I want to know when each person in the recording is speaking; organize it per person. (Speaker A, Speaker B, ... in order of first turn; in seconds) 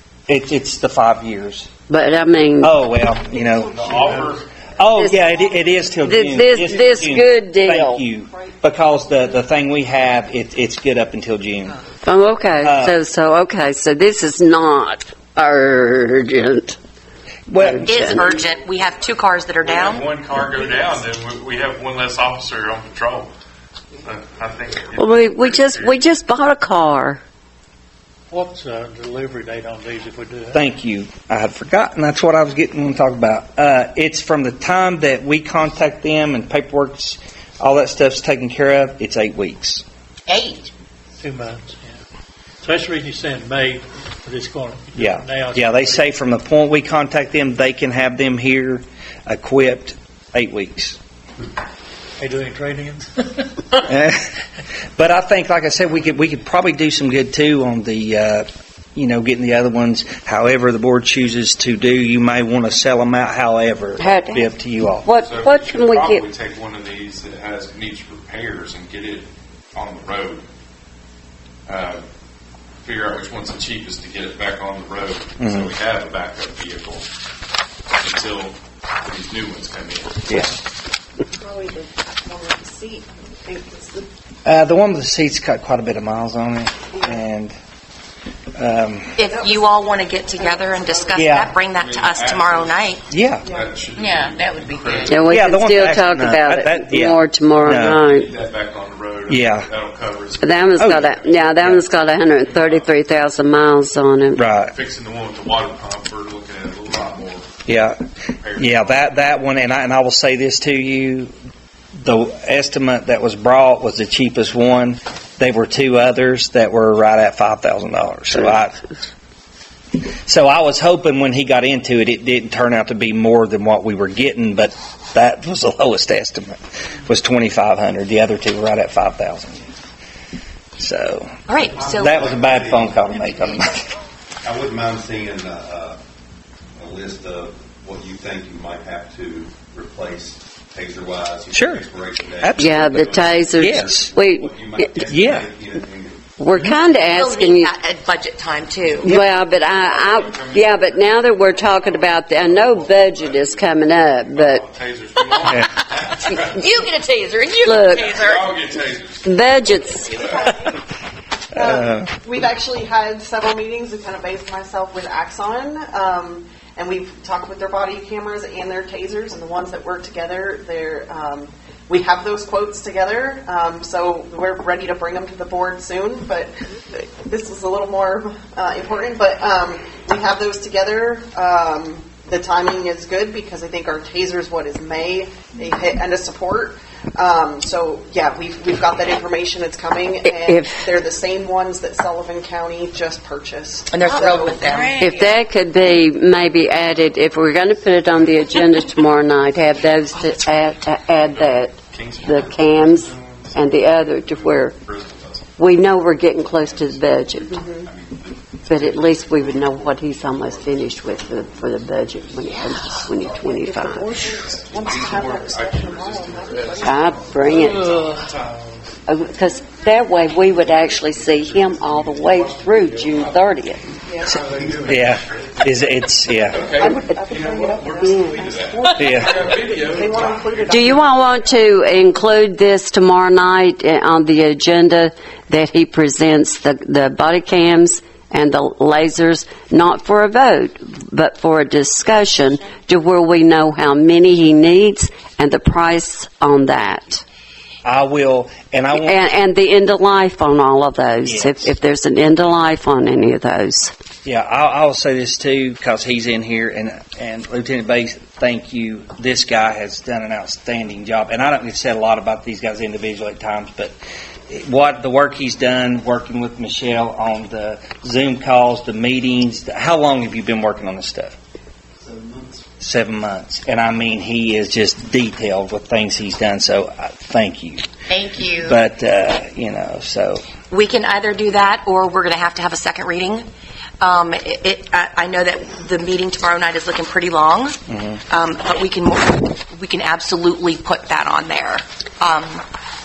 Speaker A: 0.3-1.7, 2.6-4.0, 4.8-11.8, 12.6-13.0, 17.5-17.9, 30.5-39.8, 45.0-51.0, 53.9-54.2, 55.0-65.1, 75.4-75.7, 84.5-87.5, 88.5-89.2, 91.2-91.5, 93.1-93.5, 95.3-98.0, 99.3-99.7, 100.7-101.0, 101.6-101.8, 104.3-104.7, 107.7-108.0, 108.6-111.3, 112.0-118.9, 120.0-129.7, 130.8-131.3, 131.9-133.9, 141.5-141.8, 142.4-142.8, 143.5-144.1, 145.0-145.5, 161.8-162.0, 224.8-226.7, 228.9-229.4, 247.8-249.2, 251.2-251.7, 254.2-263.9, 264.5-271.3, 272.8-277.8, 278.6-280.4, 287.9-288.2
Speaker B: 1.9-2.7, 4.9-5.3, 6.0-8.0, 12.0-16.8, 17.5-18.4, 24.9-27.2, 64.0-64.5, 65.0-66.2, 95.0-98.3, 100.4-104.4, 142.6-145.0, 146.4-147.7, 149.0-154.7, 157.6-158.2, 159.2-160.2, 190.2-190.8, 195.0-204.8, 205.6-207.6, 208.7-214.2, 216.8-218.1, 219.1-223.8, 228.1-229.4, 230.6-247.2, 248.9-253.9
Speaker C: 3.7-4.4, 19.6-23.3, 24.0-26.0, 65.1-70.4, 71.7-72.0, 72.8-77.0, 78.0-80.2, 91.4-95.3, 97.6-101.6, 102.4-102.9, 104.6-107.5, 108.4-109.3, 149.3-156.8, 158.2-160.4, 201.1-205.6, 214.2-218.9, 220.5-223.4, 224.2-225.8, 226.4-231.0
Speaker D: 17.8-20.1, 40.3-40.7, 89.2-93.0, 94.0-95.1, 131.5-132.2, 147.0-149.2, 155.3-155.7, 156.3-158.4, 193.9-195.4, 200.1-200.8, 278.1-278.8, 280.7-283.4, 284.0-287.8, 288.3-292.6
Speaker E: 28.3-30.7, 41.2-42.0, 42.6-46.0, 52.2-53.5
Speaker F: 81.3-84.1, 89.3-89.7, 90.4-91.0, 93.4-93.7, 160.1-160.8, 161.5-195.0, 207.5-207.9, 213.4-217.6, 224.1-224.4, 226.5-228.7, 229.2-231.6
Speaker G: 131.7-133.1, 134.4-136.0, 136.8-146.2, 206.5-213.5